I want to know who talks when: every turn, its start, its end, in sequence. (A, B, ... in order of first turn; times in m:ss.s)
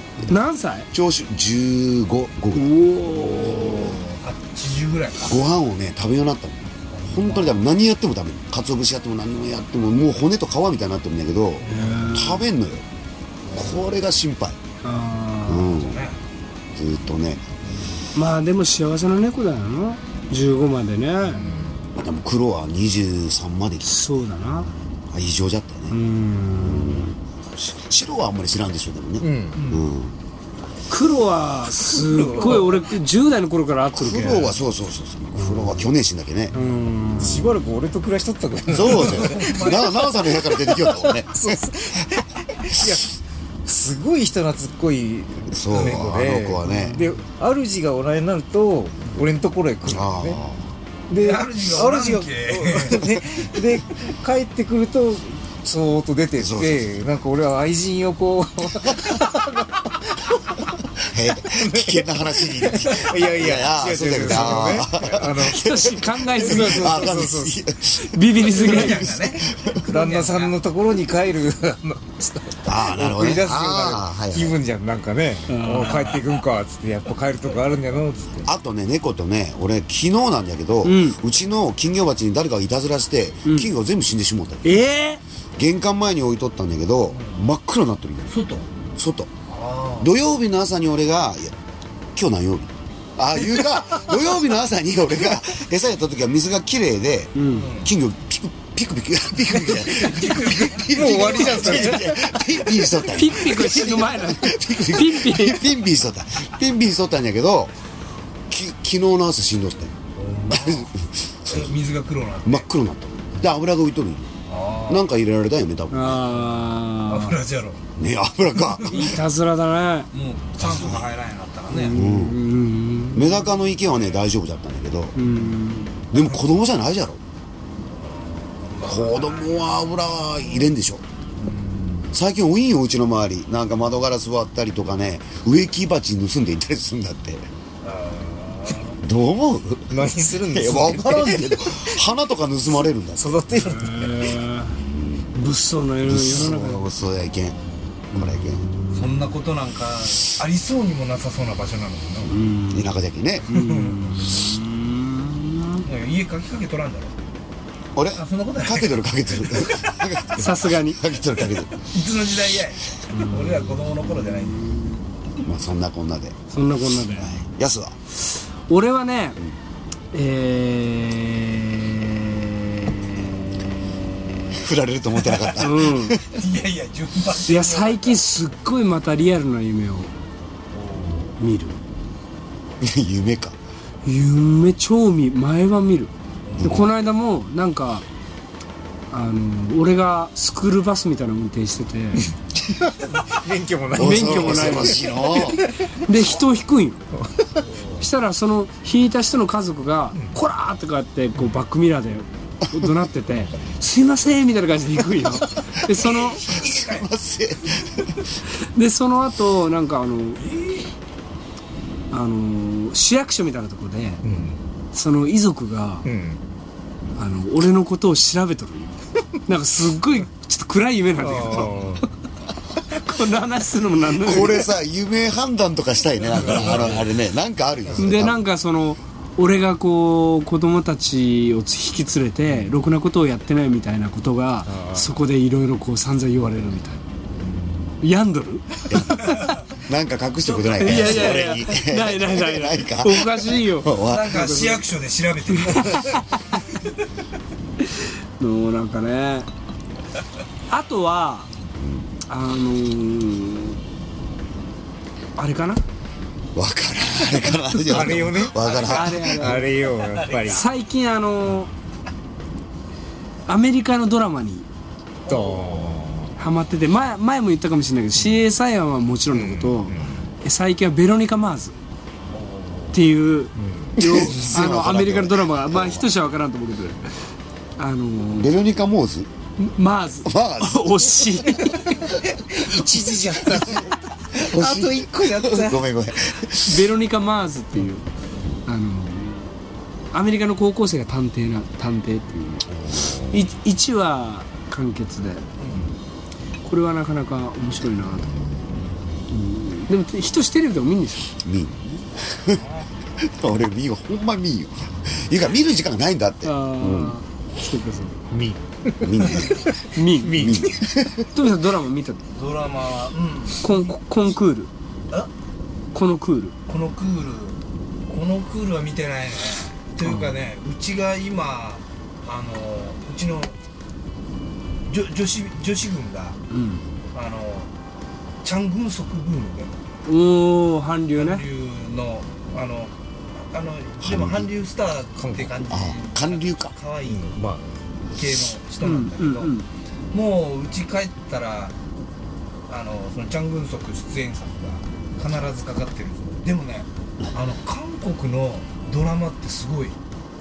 0:00.3-0:00.9 A
0:00.9-0:03.8 B
0:02.6-0:04.0 A
0:03.8-0:05.4 C
0:05.2-0:12.8 B
0:06.9-0:07.6 C
0:11.6-0:12.3 C
0:11.7-0:12.4 A
0:13.5-0:13.8 C
0:13.5-0:14.6 B
0:14.8-0:15.8 A
0:15.4-0:16.0 B
0:15.7-0:16.2 C
0:16.8-0:17.5 B
0:18.1-0:21.4 A
0:21.3-0:21.8 D
0:22.0-0:24.0 B
0:23.8-0:24.7 A
0:25.1-0:26.0 B
0:25.9-0:27.2 A
0:26.6-0:30.1 B
0:29.2-0:29.6 D
0:29.6-0:29.8 C
0:30.9-0:34.6 A
0:31.8-0:32.9 C
0:32.0-0:32.8 D
0:33.9-0:36.6 B
0:35.4-0:35.9 A
0:36.5-0:37.6 A
0:37.2-0:39.8 D
0:38.7-0:41.6 B
0:38.8-0:40.2 C
0:40.8-0:50.4 D
0:45.5-0:47.1 B
0:45.7-0:46.0 C
0:46.7-0:47.0 A
0:49.9-0:50.6 B
0:51.1-0:59.9 D
0:51.2-0:53.0 C
0:56.4-0:56.9 B
1:01.0-1:09.8 B
1:01.4-1:05.7 D
1:05.4-1:07.0 A
1:06.3-1:07.6 D
1:07.9-1:09.1 A
1:08.4-1:10.6 C
1:09.8-1:18.5 D
1:12.6-1:14.6 B
1:15.5-1:16.2 A
1:18.4-1:24.8 B
1:20.8-1:21.2 A
1:23.4-1:23.7 A
1:24.6-1:25.2 A
1:25.6-1:28.3 B
1:28.3-1:28.7 C
1:29.0-1:29.3 B
1:29.5-1:30.1 C
1:30.0-1:31.5 B
1:32.2-1:47.7 B
1:37.3-1:37.7 A
1:37.4-1:37.9 C
1:39.6-1:42.1 C
1:39.6-1:42.4 D
1:43.0-1:45.7 A
1:48.5-1:49.9 B
1:50.2-1:50.9 C
1:50.5-1:51.7 B
1:51.5-1:52.7 C
1:52.4-1:54.3 B
1:54.5-1:55.0 C
1:54.9-1:56.3 B
1:55.9-1:57.4 A
1:57.1-1:57.8 C
1:58.0-1:59.2 B
1:58.8-1:59.2 C
1:58.8-2:00.1 A
2:00.1-2:02.0 C
2:00.6-2:01.1 B
2:01.7-2:03.4 A
2:01.9-2:02.4 B
2:03.1-2:05.2 B
2:03.8-2:04.2 C
2:05.2-2:06.0 A
2:06.1-2:07.2 B
2:08.1-2:10.3 C
2:08.8-2:11.0 B
2:11.4-2:12.1 C
2:12.1-2:17.5 B
2:17.8-2:19.0 C
2:19.0-2:23.4 B
2:19.9-2:22.0 D
2:23.1-2:24.4 D
2:23.6-2:24.8 A
2:25.3-2:26.8 A
2:26.0-2:28.7 B
2:28.2-2:29.1 A
2:28.9-2:32.4 C
2:32.2-2:32.9 A
2:32.7-2:33.6 B
2:33.4-2:35.8 A
2:33.5-2:34.2 C
2:35.8-2:37.2 C
2:37.9-2:41.8 B
2:38.2-2:39.8 C
2:40.4-2:41.0 A
2:41.8-2:44.9 C
2:43.1-2:43.9 A
2:45.4-2:46.4 B
2:46.5-2:47.4 A
2:46.9-2:48.0 B
2:48.7-2:49.4 A
2:50.1-2:54.6 A
2:54.5-2:56.4 B
2:55.3-2:55.6 C
2:55.6-2:56.2 A
2:56.3-2:58.2 C
2:57.4-3:00.1 A
3:00.7-3:01.3 C
3:01.4-3:01.8 A
3:02.8-3:03.6 B
3:04.0-3:08.1 A
3:06.4-3:06.9 C
3:06.6-3:06.9 B
3:09.1-3:12.3 A
3:12.7-3:15.7 D
3:13.9-3:15.6 B
3:14.0-3:15.1 A
3:16.0-3:17.0 A
3:17.2-3:17.6 D
3:17.7-3:18.0 C
3:18.0-3:26.4 A
3:25.9-3:28.2 B
3:26.4-3:27.0 C
3:28.6-3:30.4 A
3:30.6-3:30.9 C
3:32.1-3:34.2 A
3:34.2-3:34.6 D
3:34.9-3:36.1 A
3:36.0-3:36.4 D
3:37.2-3:42.0 A
3:41.2-3:42.0 D
3:43.0-3:44.7 A
3:44.1-3:48.4 B
3:46.3-3:47.2 D
3:48.0-3:57.0 A
3:54.7-3:55.2 D
3:58.0-3:59.5 A
3:58.9-4:04.5 B
4:00.4-4:01.6 C
4:00.8-4:04.8 A
4:04.1-4:06.2 C
4:05.6-4:06.4 A
4:08.0-4:09.5 A
4:10.7-4:11.5 A
4:11.8-4:12.1 B
4:12.3-4:13.8 A
4:15.4-4:15.8 A
4:16.6-4:19.6 B
4:17.8-4:20.6 D
4:18.0-4:18.3 A
4:18.8-4:19.7 A
4:20.4-4:21.7 A
4:23.5-4:24.7 A
4:25.2-4:25.9 C
4:25.3-4:26.3 D
4:26.4-4:31.7 A
4:29.3-4:30.3 D
4:32.3-4:33.0 C
4:32.9-4:37.1 A
4:33.6-4:34.3 D
4:34.0-4:36.1 B
4:37.8-4:38.6 A
4:38.4-4:39.3 B
4:39.6-4:42.1 A
4:40.2-4:41.0 B
4:42.0-4:45.9 D
4:43.6-4:46.9 B
4:46.6-4:48.0 A
4:48.6-4:49.6 A
4:50.1-4:55.4 A
4:52.7-4:53.4 B
4:55.6-4:55.9 C
4:56.6-4:58.3 A
4:59.3-5:01.3 A
5:01.4-5:02.6 B
5:02.5-5:02.9 C
5:03.2-5:07.2 B
5:06.4-5:08.2 A
5:08.3-5:10.9 D
5:09.0-5:09.7 B
5:09.8-5:10.6 A
5:10.3-5:11.3 B
5:11.2-5:12.2 A
5:12.3-5:14.4 C
5:13.6-5:14.7 A
5:15.9-5:16.6 A
5:16.7-5:23.6 C
5:24.9-5:26.4 C
5:26.5-5:26.8 A
5:27.1-5:27.7 C
5:28.4-5:29.8 C
5:30.0-5:31.4 A
5:31.1-5:37.3 C
5:34.0-5:34.5 B
5:35.2-5:35.7 D
5:35.7-5:36.8 B
5:37.0-5:37.6 D
5:38.1-5:39.6 C
5:38.8-5:39.7 A
5:40.1-5:41.7 C
5:42.7-5:50.0 C